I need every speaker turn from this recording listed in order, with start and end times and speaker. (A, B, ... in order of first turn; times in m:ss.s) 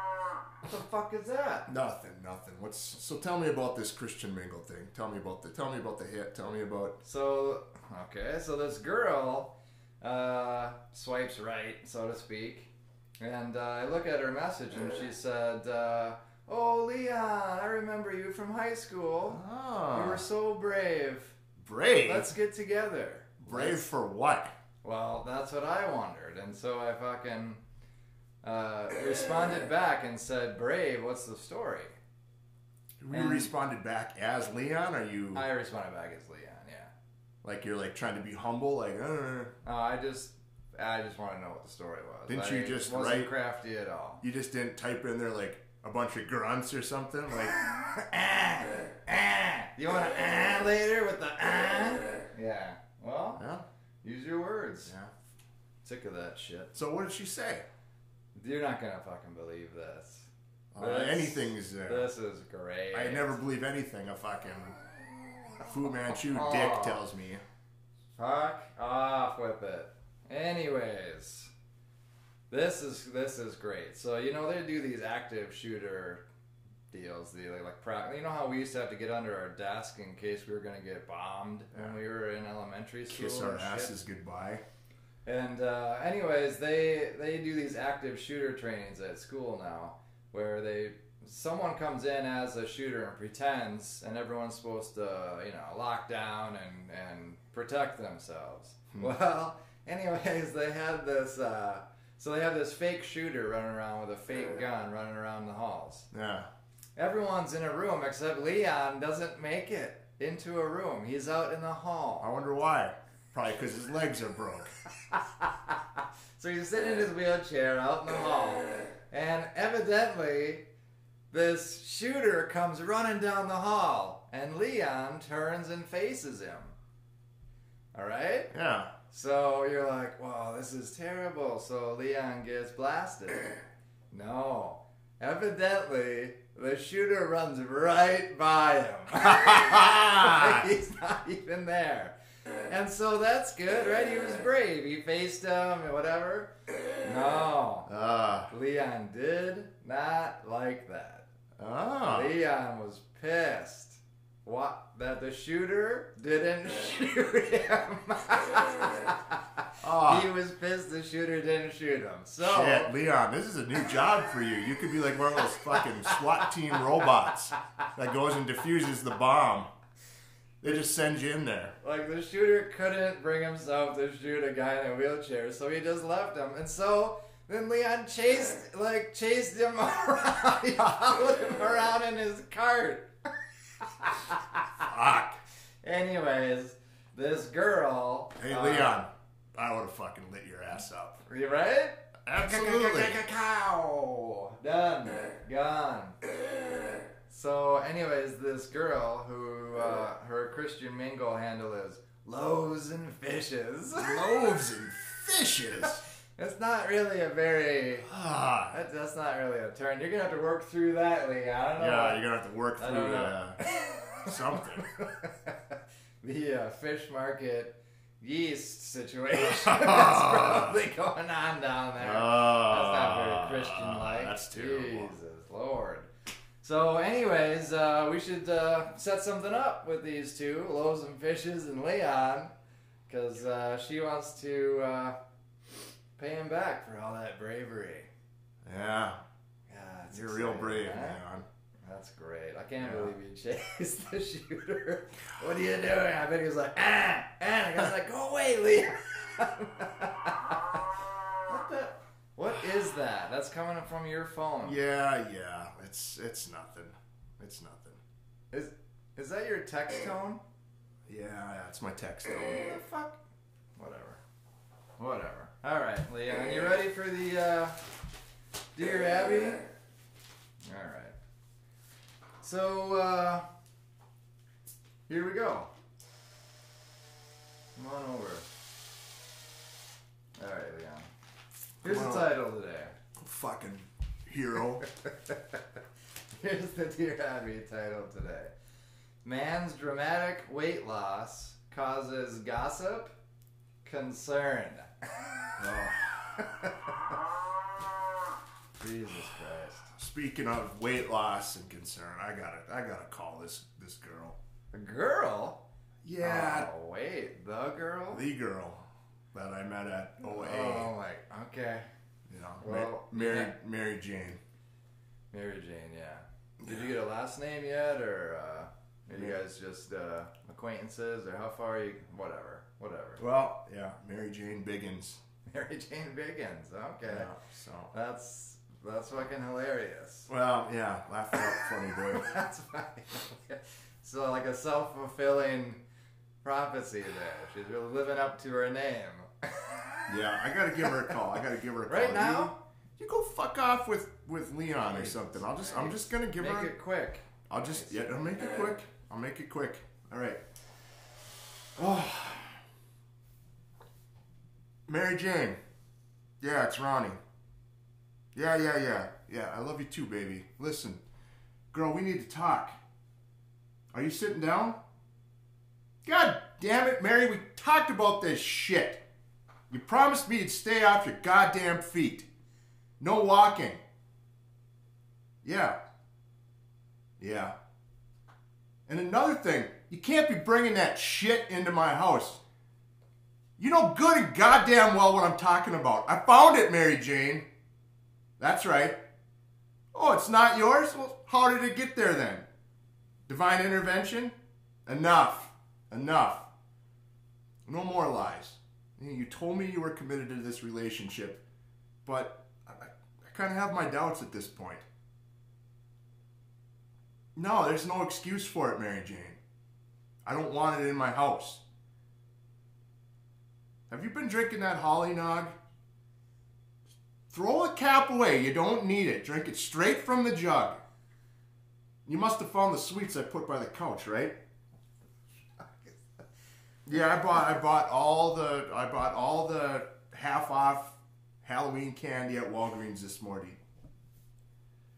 0:00.6-0:01.7 A
0:01.7-0:07.0 B
0:07.0-0:12.7 A
0:13.2-0:19.4 A
0:19.3-0:20.2 B
0:19.9-0:21.4 A
0:21.6-0:22.3 B
0:22.1-0:23.9 A
0:23.4-0:24.5 B
0:24.8-0:27.6 A
0:28.4-0:32.0 A
0:33.0-0:35.5 B
0:33.1-0:33.5 A
0:35.3-0:36.9 A
0:37.4-0:39.5 B
0:39.6-0:44.2 A
0:42.3-0:43.3 B
0:44.2-0:47.6 B
0:47.5-0:53.4 A
0:53.4-0:53.6 B
0:54.0-0:54.9 A
0:54.9-0:55.1 B
0:55.8-0:56.7 A
0:56.7-0:57.6 B
0:58.4-1:03.4 A
1:00.7-1:02.1 B
1:02.9-1:04.8 B
1:05.6-1:07.4 B
1:06.2-1:07.0 A
1:08.2-1:11.5 A
1:12.5-1:16.2 A
1:16.9-1:23.9 A
1:23.1-1:24.6 B
1:25.2-1:46.1 A
1:46.1-1:46.5 B
1:47.0-1:52.3 A
1:52.2-1:54.7 B
1:55.1-2:00.6 A
2:01.3-2:06.8 A
2:07.9-2:08.5 A
2:08.5-2:08.9 B
2:09.1-2:13.6 A
2:14.1-2:22.2 A
2:19.3-2:20.6 B
2:22.7-2:26.5 A
2:27.0-2:27.9 A
2:27.9-2:28.5 B
2:28.5-2:31.3 A
2:31.6-2:32.3 B
2:32.1-2:42.9 A
2:39.8-2:40.3 B
2:42.4-2:49.7 B
2:45.5-2:46.2 A
2:50.6-2:51.8 B
2:51.8-3:03.1 A
3:03.8-3:04.8 A
3:04.8-3:05.4 B
3:05.8-3:09.0 A
3:08.4-3:11.2 B
3:11.3-3:16.2 A
3:12.3-3:13.2 B
3:17.3-3:24.3 A
3:23.9-3:26.0 B
3:25.8-3:28.1 A
3:28.1-3:28.8 B
3:28.7-3:32.2 A
3:31.8-3:33.6 B
3:32.8-3:46.1 A
3:34.2-3:34.9 B
3:39.4-3:40.8 B
3:42.0-3:45.2 B
3:46.6-3:52.5 A
3:53.1-3:55.2 A
3:56.2-3:58.1 A
3:58.6-3:59.2 B
3:59.7-4:01.2 A
4:00.1-4:01.5 B
4:01.8-4:10.9 A
4:02.8-4:03.1 B
4:11.5-4:14.8 A
4:14.6-4:18.0 B
4:18.5-4:20.4 A
4:21.1-4:22.7 B
4:22.5-4:23.2 A
4:23.8-4:24.2 A
4:25.0-4:27.8 A
4:28.8-4:29.7 A
4:30.6-4:31.2 A
4:32.4-4:33.4 A
4:35.1-4:35.7 A
4:37.8-4:38.4 A
4:40.4-4:41.1 A
4:41.8-4:42.3 B
4:41.8-4:43.0 A
4:43.2-4:44.8 B
4:44.8-4:45.6 A
4:46.3-4:48.5 A
4:49.2-4:53.1 A
4:53.8-4:55.3 A
4:55.6-4:56.5 B
4:56.4-4:57.2 A
4:58.8-4:59.9 A
4:59.9-5:04.4 B
5:04.7-5:05.6 A
5:06.0-5:06.7 B
5:06.2-5:08.2 A
5:08.1-5:10.9 B
5:10.2-5:11.9 A
5:12.3-5:14.4 B
5:12.6-5:13.5 A
5:15.3-5:23.2 A
5:16.6-5:16.9 B
5:19.1-5:19.4 B
5:23.2-5:25.2 B
5:25.5-5:27.3 A
5:27.1-5:27.9 B
5:27.9-5:30.3 A
5:30.3-5:32.3 B
5:31.3-5:35.8 A
5:36.4-5:39.9 A
5:40.1-5:46.7 B
5:40.8-5:41.4 A
5:41.9-5:42.6 A
5:44.9-5:48.6 A
5:47.5-5:50.4 B
5:51.8-5:52.6 B
5:54.9-5:55.6 B
5:56.4-5:57.2 B
5:58.4-6:01.0 B
6:01.7-6:02.8 B
6:03.9-6:04.8 B
6:06.0-6:09.0 B
6:09.7-6:12.3 B
6:13.0-6:13.8 B
6:15.4-6:15.8 B
6:17.2-6:17.6 B
6:18.9-6:22.4 B
6:23.6-6:27.5 B
6:28.4-6:29.0 B
6:29.9-6:32.4 B
6:33.3-6:34.4 B
6:34.9-6:36.5 B
6:37.7-6:41.4 B
6:42.0-6:44.9 B
6:47.4-6:49.4 B
6:50.2-6:51.6 B
6:53.9-6:55.5 B
6:57.3-7:00.8 B
7:02.1-7:04.4 B
7:05.6-7:06.0 A
7:06.9-7:13.6 B